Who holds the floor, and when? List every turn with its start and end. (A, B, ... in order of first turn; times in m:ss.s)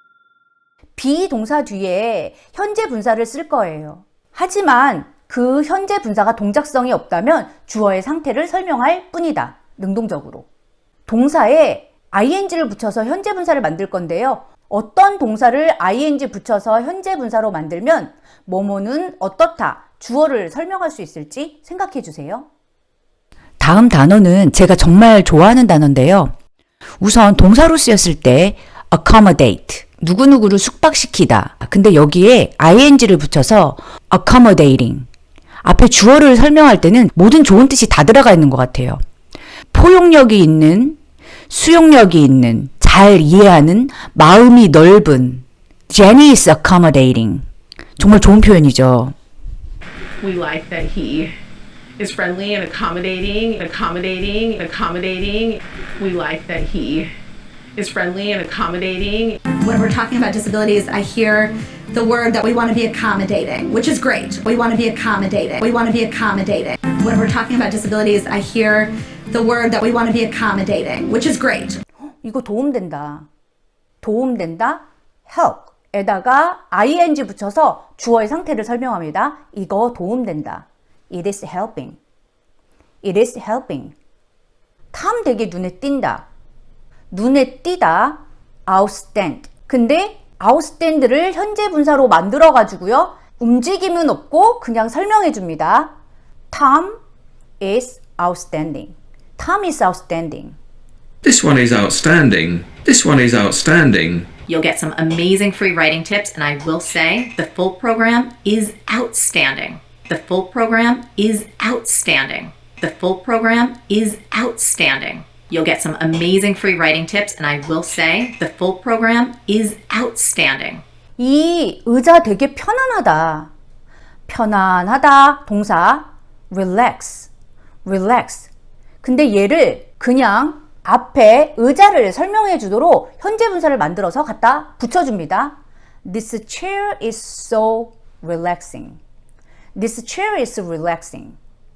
0:01.0-0:10.5 A
0:11.1-0:22.5 A
0:23.6-0:26.3 A
0:27.0-0:35.1 A
0:35.6-0:39.0 A
0:39.7-0:41.0 A
0:41.5-0:47.4 A
0:48.0-0:49.1 A
0:50.2-0:51.3 B
0:52.0-0:57.1 B
0:57.8-0:59.4 B
0:59.6-1:11.8 C
1:12.2-1:13.2 A
1:14.0-1:22.0 A
1:23.0-1:23.9 A
1:24.9-1:26.2 A
1:27.1-1:35.9 A
1:36.5-1:37.0 A
1:37.6-1:40.6 A
1:41.2-1:44.3 D
1:44.5-2:00.8 E
2:01.2-2:03.5 A
2:04.3-2:07.3 A
2:07.8-2:08.5 A
2:09.0-2:19.0 A
2:19.8-2:21.4 A